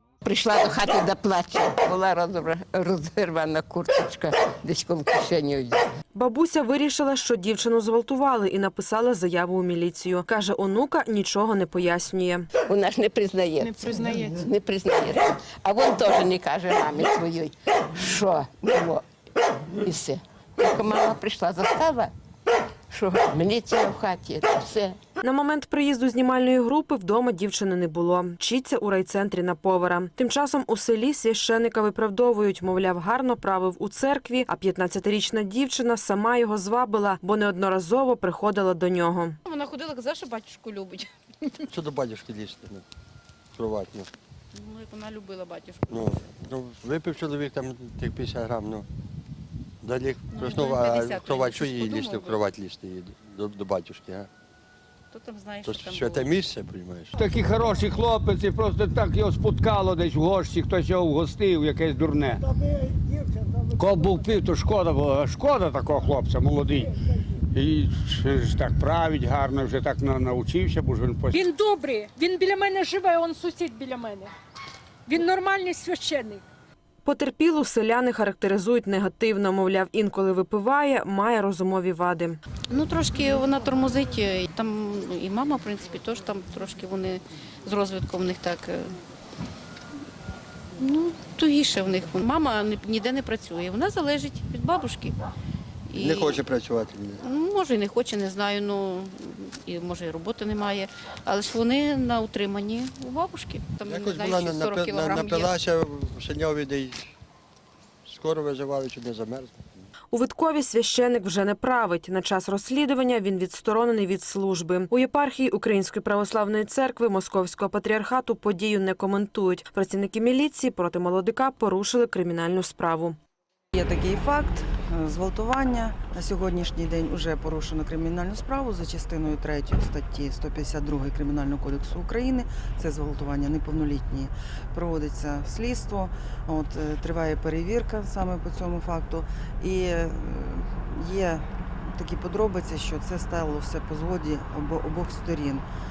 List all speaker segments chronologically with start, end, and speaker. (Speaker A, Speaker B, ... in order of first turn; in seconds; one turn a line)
Speaker A: 0.2-5.9
Speaker B: 6.1-12.5
Speaker A: 12.6-19.0
Speaker C: 13.6-14.5
Speaker A: 19.8-22.1
Speaker A: 22.9-25.0
Speaker B: 25.2-39.4
Speaker D: 39.5-41.1
Speaker E: 41.7-42.9
Speaker E: 43.5-44.1
Speaker D: 44.5-46.0
Speaker E: 45.9-48.9
Speaker E: 49.8-54.3
Speaker D: 50.3-52.4
Speaker D: 55.1-56.3
Speaker E: 55.6-57.2
Speaker F: 57.2-62.5
Speaker F: 63.8-66.9
Speaker F: 67.5-71.5
Speaker C: 71.3-74.3
Speaker C: 75.1-76.4
Speaker B: 77.0-82.4
Speaker D: 82.7-88.9
Speaker D: 90.8-95.2
Speaker D: 95.9-96.4
Speaker E: 96.0-97.2
Speaker D: 97.2-105.5
Speaker E: 103.8-107.1
Speaker E: 108.1-109.6
Speaker B: 110.1-123.2
Speaker G: 123.7-145.7